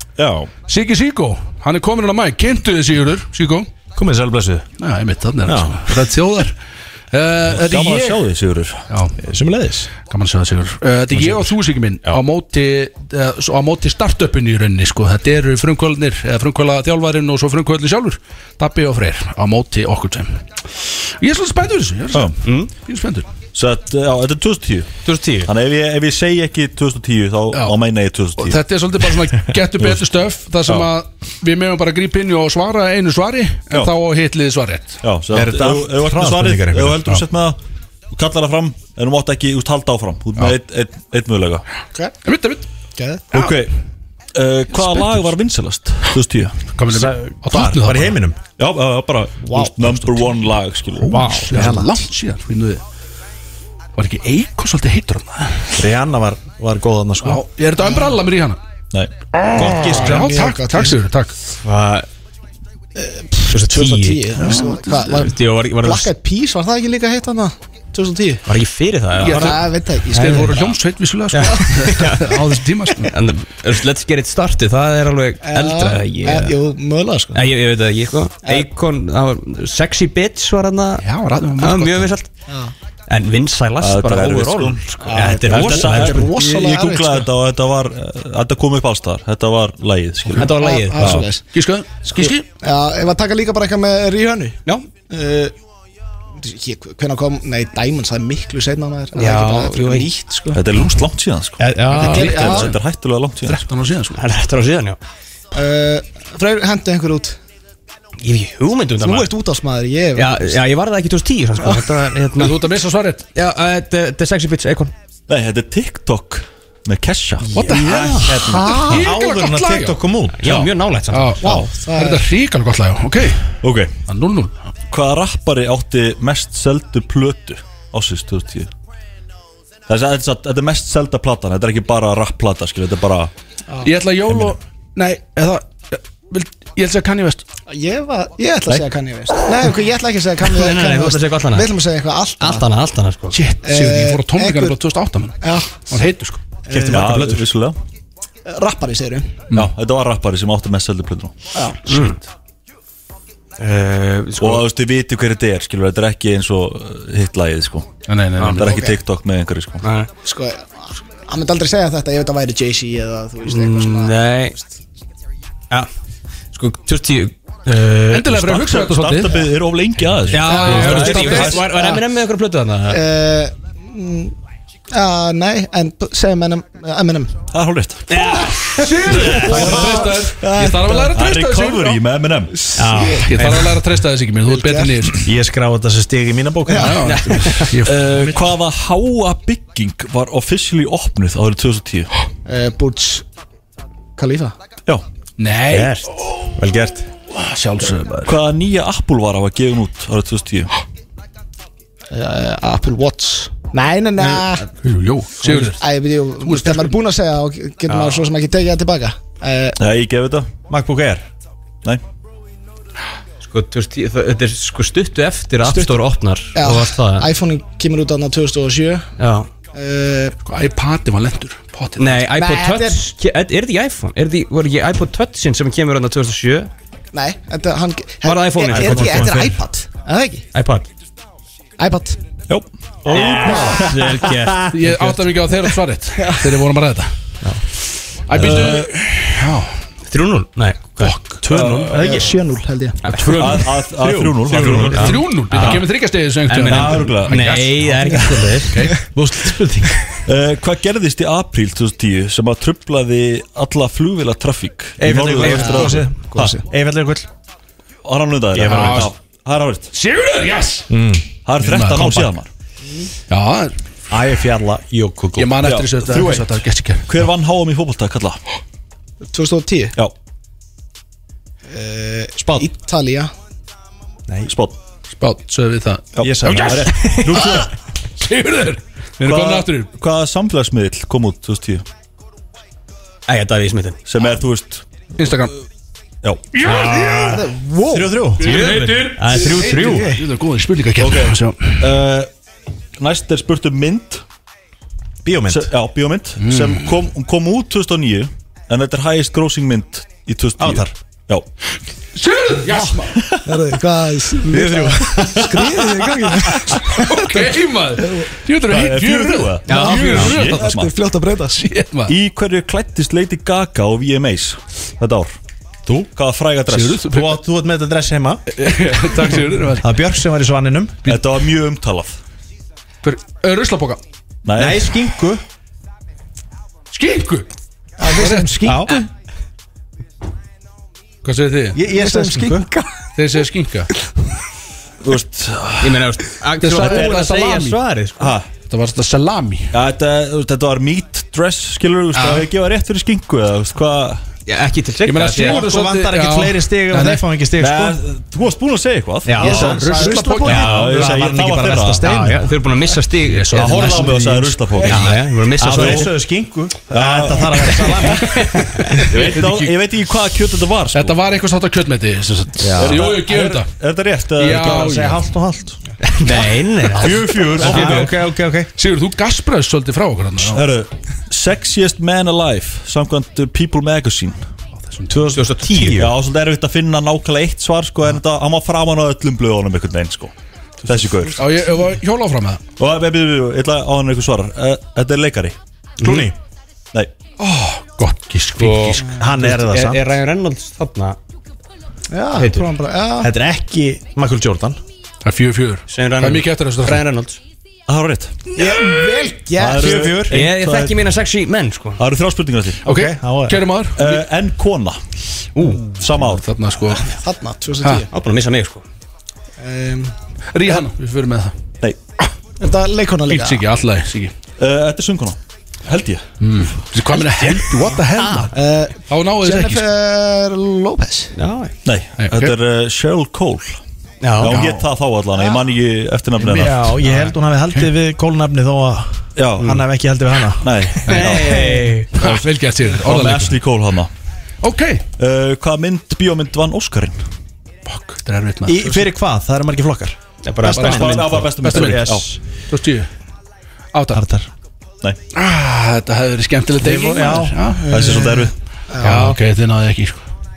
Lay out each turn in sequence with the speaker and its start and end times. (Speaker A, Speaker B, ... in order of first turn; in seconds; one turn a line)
Speaker A: 0.2-0.5
Speaker B: 0.7-3.7
Speaker C: 4.0-4.7
Speaker B: 4.8-6.6
Speaker C: 5.5-6.1
Speaker B: 7.1-8.2
Speaker A: 7.5-8.8
Speaker B: 8.9-9.1
Speaker C: 9.2-9.9
Speaker B: 10.0-23.3
Speaker D: 22.4-22.7
Speaker A: 23.5-28.6
Speaker D: 25.1-25.5
Speaker B: 28.4-35.0
Speaker A: 29.8-30.1
Speaker A: 35.0-37.6
Speaker C: 35.3-37.0
Speaker A: 38.1-41.6
Speaker B: 42.2-42.6
Speaker E: 43.0-43.3
Speaker B: 43.3-43.6
Speaker A: 43.3-43.7
Speaker A: 44.3-46.6
Speaker B: 44.8-45.2
Speaker B: 46.7-48.1
Speaker C: 46.9-48.4
Speaker A: 48.6-51.9
Speaker E: 49.5-49.9
Speaker B: 51.0-52.8
Speaker B: 54.0-55.7
Speaker C: 55.8-57.4
Speaker B: 57.2-58.6
Speaker E: 57.8-58.2
Speaker A: 58.9-60.1
Speaker B: 59.3-61.3
Speaker E: 59.5-61.0
Speaker D: 61.6-62.1
Speaker E: 63.0-68.4
Speaker D: 63.5-64.3
Speaker B: 64.4-65.0
Speaker D: 65.0-66.1
Speaker D: 68.5-69.6
Speaker B: 69.2-73.2
Speaker E: 69.2-70.7
Speaker D: 70.2-70.7
Speaker D: 71.3-72.4
Speaker E: 71.5-71.8
Speaker D: 73.0-76.6
Speaker E: 75.4-77.4
Speaker D: 77.3-81.0
Speaker B: 81.0-82.2
Speaker D: 81.6-82.3
Speaker E: 82.5-82.7
Speaker D: 83.1-86.3
Speaker A: 83.8-84.9
Speaker E: 85.0-87.3
Speaker A: 85.4-91.2
Speaker D: 90.3-91.2
Speaker E: 90.4-91.6
Speaker B: 91.4-92.5
Speaker E: 92.2-95.5
Speaker E: 96.4-100.7
Speaker D: 99.2-100.1
Speaker A: 100.5-103.6
Speaker D: 101.6-102.7
Speaker B: 101.9-102.7
Speaker E: 102.4-102.7
Speaker B: 103.5-104.2
Speaker D: 104.1-105.0
Speaker E: 105.5-107.4
Speaker D: 108.2-109.3
Speaker E: 109.0-110.6
Speaker D: 110.2-112.8
Speaker B: 112.4-113.2
Speaker D: 113.3-114.9
Speaker A: 115.3-118.7
Speaker B: 117.6-120.0
Speaker D: 117.7-118.2
Speaker C: 118.3-120.7
Speaker E: 118.4-119.1
Speaker D: 120.3-121.7
Speaker B: 121.1-124.6
Speaker E: 121.4-122.3
Speaker A: 123.6-124.0
Speaker A: 124.9-128.7
Speaker A: 129.9-133.3
Speaker B: 133.8-137.4
Speaker A: 134.3-134.6
Speaker E: 137.7-142.7
Speaker D: 140.4-141.7
Speaker D: 142.4-143.4
Speaker B: 143.3-146.6
Speaker E: 143.6-144.8
Speaker E: 145.4-146.1
Speaker E: 146.7-147.2
Speaker D: 146.7-147.4
Speaker A: 146.8-147.8
Speaker E: 148.5-149.5
Speaker A: 149.5-151.3
Speaker E: 151.6-151.8
Speaker D: 151.9-152.2
Speaker B: 151.9-152.2
Speaker D: 153.6-154.7
Speaker A: 154.4-157.9
Speaker B: 158.1-158.8
Speaker A: 158.5-159.9
Speaker E: 158.6-159.0
Speaker D: 159.8-160.1
Speaker E: 160.2-164.2
Speaker D: 163.5-164.6
Speaker D: 166.5-168.7
Speaker B: 168.1-169.4
Speaker A: 168.4-171.6
Speaker D: 170.3-173.0
Speaker B: 170.3-171.6
Speaker E: 171.0-172.0
Speaker E: 172.9-174.3
Speaker E: 174.9-177.5
Speaker A: 177.5-178.4
Speaker D: 178.1-180.0
Speaker B: 178.5-182.0
Speaker E: 179.3-181.1
Speaker A: 181.1-182.7
Speaker E: 182.5-183.4
Speaker D: 182.8-183.8
Speaker B: 183.2-185.3
Speaker E: 184.5-185.1
Speaker C: 185.2-187.4
Speaker E: 186.7-187.0
Speaker B: 186.7-188.4
Speaker D: 187.0-187.7
Speaker A: 187.8-192.1
Speaker E: 192.5-193.2
Speaker E: 194.2-194.6
Speaker B: 195.4-196.4
Speaker D: 195.7-197.1
Speaker B: 197.3-198.4
Speaker A: 198.2-200.7
Speaker E: 202.1-204.7
Speaker B: 204.8-207.0
Speaker E: 205.4-209.8
Speaker D: 207.9-208.2
Speaker A: 209.8-211.2
Speaker C: 210.8-211.1
Speaker D: 213.4-217.3
Speaker E: 215.7-215.9
Speaker E: 216.5-219.1
Speaker D: 219.2-219.5
Speaker E: 219.7-220.4
Speaker B: 220.4-222.3
Speaker D: 222.0-226.7
Speaker E: 222.3-223.0
Speaker E: 227.1-230.4
Speaker D: 228.2-229.6
Speaker C: 228.8-229.4
Speaker D: 230.5-230.9
Speaker E: 231.8-232.2
Speaker A: 232.5-233.8
Speaker D: 233.1-235.2
Speaker E: 233.2-234.2
Speaker B: 234.7-237.3
Speaker E: 236.2-236.6
Speaker B: 238.3-239.8
Speaker A: 238.3-239.0
Speaker D: 240.1-241.2
Speaker B: 241.0-241.8
Speaker A: 241.4-242.3
Speaker E: 241.9-243.3
Speaker D: 243.0-249.0
Speaker B: 243.1-243.8
Speaker A: 243.3-245.3
Speaker C: 244.5-244.9
Speaker B: 244.8-248.0
Speaker C: 246.7-248.5
Speaker A: 246.7-247.7
Speaker B: 248.7-249.6
Speaker C: 249.2-249.8
Speaker A: 250.2-256.6
Speaker C: 255.0-257.3
Speaker D: 255.1-256.1
Speaker E: 255.6-256.6
Speaker A: 258.0-259.9
Speaker C: 258.5-259.1
Speaker B: 258.7-259.1
Speaker B: 259.9-260.9
Speaker A: 260.9-262.5
Speaker B: 261.6-262.4
Speaker B: 263.3-263.8
Speaker C: 264.1-265.6
Speaker B: 265.4-267.1
Speaker A: 265.6-266.5
Speaker A: 267.1-268.4
Speaker E: 269.3-269.9
Speaker E: 271.7-273.3
Speaker A: 274.5-274.8
Speaker B: 275.1-279.9
Speaker A: 276.1-277.7
Speaker C: 276.2-277.6
Speaker D: 276.8-277.6
Speaker A: 279.2-281.9
Speaker D: 283.3-284.0
Speaker A: 284.1-285.4
Speaker B: 285.2-285.5
Speaker A: 286.2-286.5
Speaker B: 286.5-287.4
Speaker D: 286.6-287.4
Speaker E: 287.2-288.3
Speaker C: 287.9-288.8
Speaker B: 288.4-291.9
Speaker D: 288.4-290.2
Speaker C: 289.3-290.0
Speaker E: 289.9-290.2
Speaker A: 291.0-292.3
Speaker A: 293.0-294.2
Speaker C: 295.2-295.7
Speaker A: 295.5-301.5
Speaker B: 296.4-297.0
Speaker C: 300.6-300.9
Speaker B: 302.1-303.3
Speaker E: 303.4-308.3
Speaker D: 304.5-305.8
Speaker C: 305.2-305.5
Speaker B: 306.6-310.9
Speaker A: 308.7-310.9
Speaker C: 309.7-310.0
Speaker D: 309.7-310.4
Speaker E: 309.9-311.7
Speaker B: 311.6-312.1
Speaker A: 312.1-315.4
Speaker A: 316.1-317.1
Speaker B: 316.7-317.4
Speaker C: 317.1-318.4
Speaker B: 318.5-319.9
Speaker C: 319.8-321.1
Speaker A: 321.1-322.2
Speaker B: 323.0-324.0
Speaker A: 324.4-325.1
Speaker C: 324.6-325.4
Speaker B: 326.9-327.5
Speaker E: 328.0-329.1
Speaker B: 328.1-328.6
Speaker C: 328.6-329.0
Speaker D: 328.7-328.9
Speaker B: 331.2-331.8
Speaker C: 331.7-332.7
Speaker E: 331.9-332.9
Speaker D: 332.0-332.5
Speaker B: 333.1-333.9
Speaker A: 335.0-336.1
Speaker D: 335.8-338.3
Speaker B: 336.6-337.8
Speaker A: 336.8-337.2
Speaker A: 338.2-338.5
Speaker B: 338.6-339.7
Speaker A: 339.7-344.2
Speaker D: 344.5-345.7
Speaker B: 345.1-347.2
Speaker C: 345.3-348.0
Speaker A: 347.6-352.2
Speaker D: 349.3-349.9
Speaker C: 349.3-352.6
Speaker E: 349.4-350.7
Speaker B: 349.5-350.8
Speaker D: 350.4-351.1
Speaker D: 352.0-356.1
Speaker B: 353.2-354.1
Speaker A: 353.5-356.1
Speaker C: 355.6-358.7
Speaker A: 356.9-358.1
Speaker D: 357.6-359.3
Speaker A: 359.1-361.2
Speaker B: 359.2-359.7
Speaker B: 360.9-363.7
Speaker A: 362.8-364.8
Speaker B: 364.4-365.3
Speaker C: 364.4-368.7
Speaker D: 366.1-368.1
Speaker A: 366.9-368.0
Speaker B: 367.8-368.1
Speaker B: 368.8-370.6
Speaker A: 370.4-374.5
Speaker B: 374.8-375.6
Speaker D: 375.1-376.1
Speaker C: 375.3-376.1
Speaker A: 375.9-380.3
Speaker A: 380.8-381.4
Speaker B: 381.4-382.6
Speaker A: 382.8-385.6
Speaker D: 386.0-386.3
Speaker C: 386.0-386.3
Speaker B: 387.4-389.2
Speaker D: 388.6-391.2
Speaker C: 389.2-390.0
Speaker E: 392.1-393.3
Speaker D: 392.3-392.7
Speaker C: 393.2-394.8
Speaker B: 395.2-397.0
Speaker D: 395.9-397.4
Speaker A: 397.9-401.1
Speaker E: 398.6-399.9
Speaker C: 399.7-400.4
Speaker D: 400.3-402.0
Speaker A: 402.0-402.9
Speaker C: 402.9-403.6
Speaker B: 402.9-404.2
Speaker A: 403.9-405.1
Speaker D: 405.6-405.8
Speaker B: 405.6-407.1
Speaker A: 405.8-406.6
Speaker E: 406.9-408.1
Speaker D: 408.1-408.9
Speaker E: 409.6-410.9
Speaker B: 410.5-411.6
Speaker E: 412.6-413.7
Speaker B: 413.3-414.4
Speaker A: 414.6-416.3
Speaker B: 416.4-418.6
Speaker D: 417.4-417.6
Speaker E: 417.8-421.3
Speaker D: 418.1-418.5
Speaker B: 419.1-419.9
Speaker D: 421.4-421.7
Speaker A: 421.8-423.8
Speaker B: 422.2-422.5
Speaker D: 424.2-424.6
Speaker A: 424.4-427.0
Speaker C: 424.4-424.9
Speaker C: 426.4-431.8
Speaker B: 427.0-427.9
Speaker A: 429.4-429.9
Speaker A: 430.6-432.0
Speaker D: 431.1-432.1
Speaker B: 432.1-433.6
Speaker A: 432.9-434.1
Speaker B: 434.6-435.0
Speaker A: 435.1-437.3
Speaker B: 437.9-439.0
Speaker C: 438.7-442.3
Speaker D: 440.4-442.0
Speaker A: 440.7-442.3
Speaker B: 441.6-442.1
Speaker B: 442.7-443.1
Speaker B: 443.9-444.2
Speaker C: 444.1-444.5
Speaker B: 445.3-448.2
Speaker C: 446.8-448.5
Speaker A: 447.9-448.5
Speaker E: 448.9-449.3
Speaker B: 449.0-450.2